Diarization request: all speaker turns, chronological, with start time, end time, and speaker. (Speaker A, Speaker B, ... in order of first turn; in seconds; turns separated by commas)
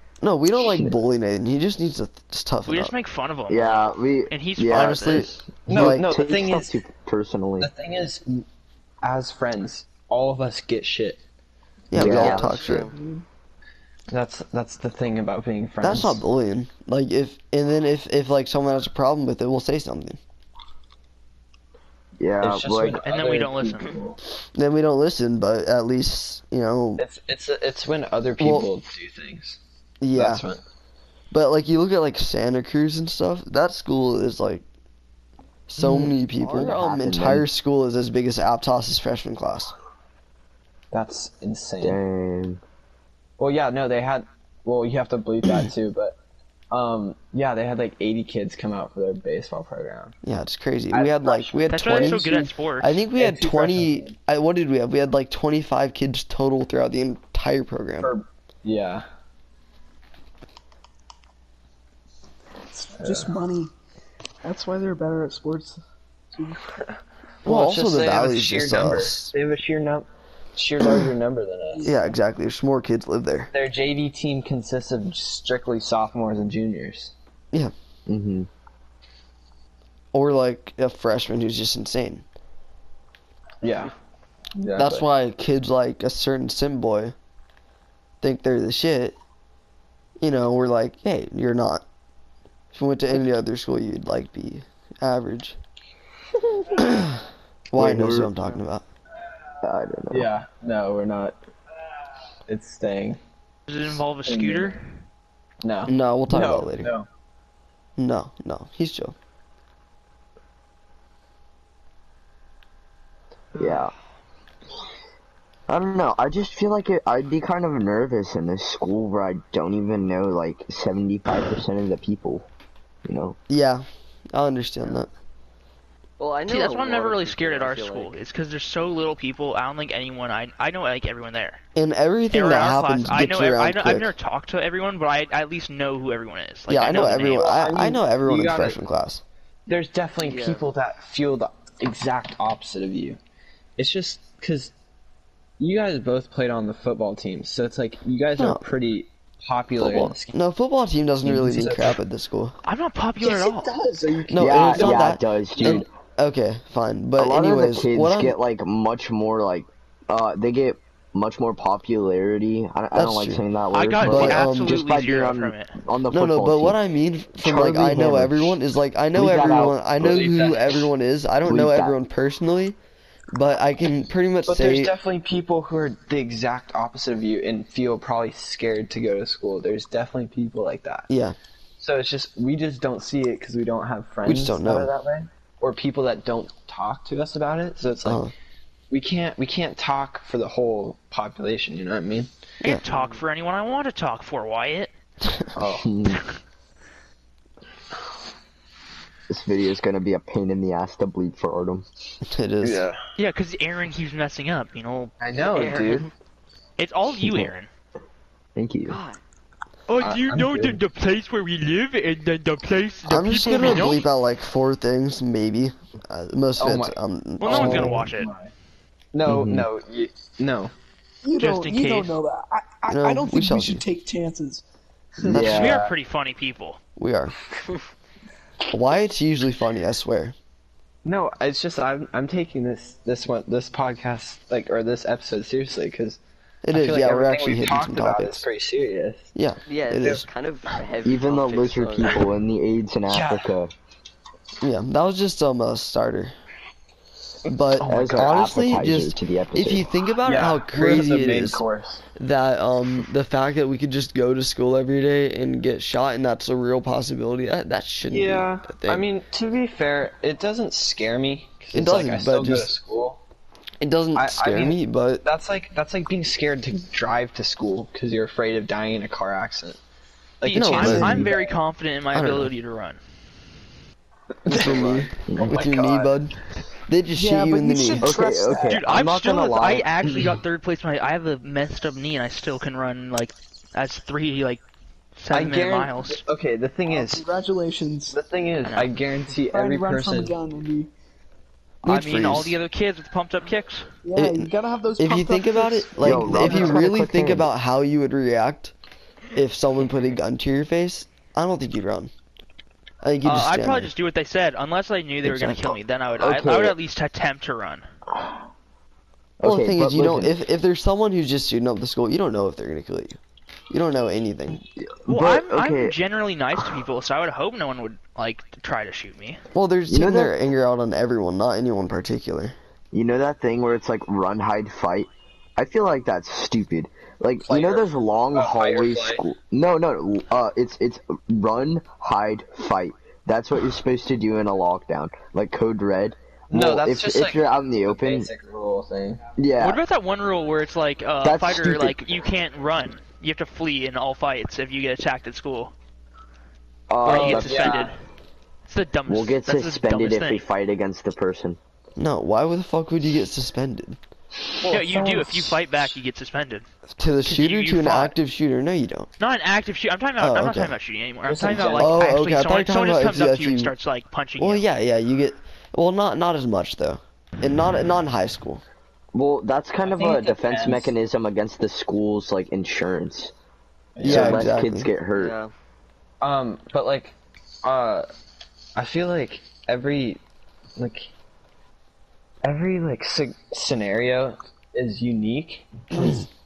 Speaker A: 0.2-2.9, Speaker B: 0.6-0.9, Speaker C: 2.7-5.3, Speaker B: 3.5-7.7, Speaker A: 4.7-6.1, Speaker D: 5.7-6.8, Speaker D: 7.6-8.4, Speaker D: 9.0-11.2, Speaker A: 11.9-12.9, Speaker B: 12.0-12.5, Speaker E: 12.0-12.9, Speaker F: 12.4-13.2, Speaker D: 14.1-16.2, Speaker A: 15.8-20.2, Speaker B: 22.2-23.0, Speaker D: 22.4-24.2, Speaker C: 23.0-24.0, Speaker A: 24.6-27.0, Speaker D: 27.0-29.6, Speaker A: 28.4-28.7, Speaker A: 30.0-30.4, Speaker D: 30.1-30.6, Speaker A: 31.3-34.6, Speaker A: 35.7-39.7, Speaker B: 35.8-37.5, Speaker D: 40.9-42.0, Speaker B: 41.8-42.6, Speaker D: 43.4-46.2, Speaker D: 46.7-50.1, Speaker A: 50.2-52.3, Speaker D: 50.9-52.5, Speaker C: 51.7-53.0, Speaker A: 52.8-58.1, Speaker D: 53.1-54.1, Speaker D: 58.0-59.1, Speaker F: 62.7-63.7, Speaker D: 63.0-63.3, Speaker F: 64.4-65.8, Speaker F: 66.3-66.7, Speaker A: 67.5-69.3, Speaker D: 67.5-71.9, Speaker F: 71.8-72.0, Speaker A: 71.8-73.5, Speaker D: 73.5-77.1, Speaker B: 78.1-78.5, Speaker A: 80.1-82.2, Speaker D: 83.6-83.9, Speaker D: 84.6-85.0, Speaker A: 84.8-87.2, Speaker A: 88.2-89.2, Speaker A: 90.2-91.8, Speaker A: 92.7-95.6, Speaker A: 96.8-98.8, Speaker B: 97.8-98.3, Speaker B: 99.6-100.3, Speaker D: 100.1-101.4, Speaker D: 102.5-103.2, Speaker C: 103.7-104.9, Speaker D: 104.3-104.8, Speaker D: 105.6-107.1, Speaker A: 105.9-106.9, Speaker A: 108.0-109.2, Speaker B: 113.6-113.9, Speaker B: 115.7-122.5, Speaker B: 123.0-123.4, Speaker A: 123.5-125.1, Speaker E: 126.2-128.2, Speaker C: 126.5-131.6, Speaker A: 131.8-134.1, Speaker C: 132.3-137.5, Speaker A: 136.7-139.2, Speaker D: 137.2-138.8, Speaker D: 139.7-143.2, Speaker E: 140.2-140.7, Speaker D: 143.8-144.7, Speaker D: 145.6-150.4, Speaker A: 148.4-148.6, Speaker A: 149.8-152.6, Speaker D: 151.2-152.0, Speaker C: 152.7-153.7, Speaker B: 154.2-155.9, Speaker A: 154.3-158.4, Speaker D: 154.6-155.0, Speaker B: 157.2-166.8, Speaker A: 162.9-163.4, Speaker C: 163.7-165.8, Speaker A: 164.0-164.8, Speaker A: 166.1-172.8, Speaker B: 167.4-168.6, Speaker B: 169.2-170.3, Speaker D: 170.0-170.8, Speaker B: 171.4-172.0, Speaker A: 173.3-174.9, Speaker D: 174.5-181.1, Speaker A: 181.1-181.4, Speaker D: 181.8-188.2, Speaker A: 184.2-184.9, Speaker A: 188.1-188.3, Speaker D: 188.9-192.3, Speaker C: 192.6-194.9, Speaker A: 195.2-195.5, Speaker B: 195.6-196.2, Speaker D: 195.6-195.9, Speaker B: 199.3-201.9, Speaker A: 202.2-202.8, Speaker D: 202.6-203.0, Speaker C: 203.2-205.1, Speaker D: 205.2-206.1, Speaker E: 205.4-206.1, Speaker C: 206.8-207.7, Speaker B: 207.2-207.5, Speaker B: 208.6-209.0, Speaker E: 208.9-209.2, Speaker C: 209.9-214.0, Speaker D: 210.0-210.8, Speaker A: 213.1-218.1, Speaker D: 216.6-218.5, Speaker C: 217.4-218.3, Speaker D: 219.1-220.7, Speaker B: 219.3-219.7, Speaker F: 221.2-224.7, Speaker C: 221.4-222.1, Speaker A: 222.9-223.9, Speaker B: 225.2-225.8, Speaker C: 225.3-226.8, Speaker D: 225.5-225.9, Speaker A: 227.0-227.4, Speaker A: 228.7-230.4, Speaker D: 231.1-236.2, Speaker A: 236.7-238.4, Speaker D: 236.7-239.3, Speaker A: 239.3-240.3, Speaker E: 239.7-242.2, Speaker B: 241.0-243.7, Speaker D: 243.1-243.5, Speaker A: 244.6-246.3, Speaker D: 247.5-248.6, Speaker A: 247.5-251.6, Speaker B: 247.9-249.8, Speaker D: 250.2-252.0, Speaker A: 252.2-259.1, Speaker D: 258.1-263.2, Speaker A: 261.7-262.7, Speaker A: 263.8-265.2, Speaker D: 264.1-269.8, Speaker D: 270.4-271.4, Speaker C: 270.4-273.0, Speaker A: 270.5-271.3, Speaker B: 270.8-271.3, Speaker A: 272.1-272.5, Speaker A: 274.5-276.4, Speaker D: 274.5-276.2, Speaker B: 275.3-275.6, Speaker A: 276.9-278.2, Speaker F: 277.1-278.9, Speaker B: 278.0-279.9, Speaker C: 278.7-284.6, Speaker C: 285.2-286.2, Speaker D: 285.3-287.3, Speaker F: 286.9-288.2, Speaker D: 288.1-290.4, Speaker C: 288.6-288.9, Speaker F: 289.4-290.9, Speaker A: 291.8-292.6, Speaker C: 291.9-293.9, Speaker F: 294.0-296.9, Speaker A: 294.1-298.7, Speaker B: 296.0-297.5, Speaker A: 299.3-302.1, Speaker A: 303.0-303.9, Speaker C: 303.2-307.9, Speaker A: 305.2-305.8, Speaker B: 306.2-306.8, Speaker B: 309.4-310.3, Speaker A: 309.4-313.2, Speaker A: 313.7-314.6, Speaker B: 314.8-315.9, Speaker C: 315.1-319.4, Speaker A: 319.5-322.6, Speaker B: 319.9-320.3, Speaker B: 322.9-338.3, Speaker D: 327.4-329.2, Speaker D: 336.5-339.2, Speaker B: 339.4-339.8, Speaker C: 339.6-345.7, Speaker B: 341.2-342.0, Speaker B: 346.9-347.8, Speaker C: 347.0-348.0, Speaker D: 347.0-348.0, Speaker C: 348.7-350.4, Speaker B: 349.1-351.6, Speaker A: 352.0-354.0, Speaker D: 354.6-355.7, Speaker C: 354.7-356.7, Speaker A: 357.0-359.1, Speaker C: 357.3-358.1, Speaker C: 359.2-364.6, Speaker A: 360.2-360.8, Speaker D: 361.2-362.0, Speaker A: 361.8-363.7, Speaker A: 364.4-368.6, Speaker B: 369.1-373.3, Speaker D: 369.8-370.9, Speaker D: 374.0-374.5, Speaker B: 374.0-375.4, Speaker A: 374.0-374.9, Speaker E: 375.1-375.5, Speaker D: 376.2-378.1, Speaker D: 378.8-380.2, Speaker D: 380.8-381.1, Speaker D: 382.4-386.3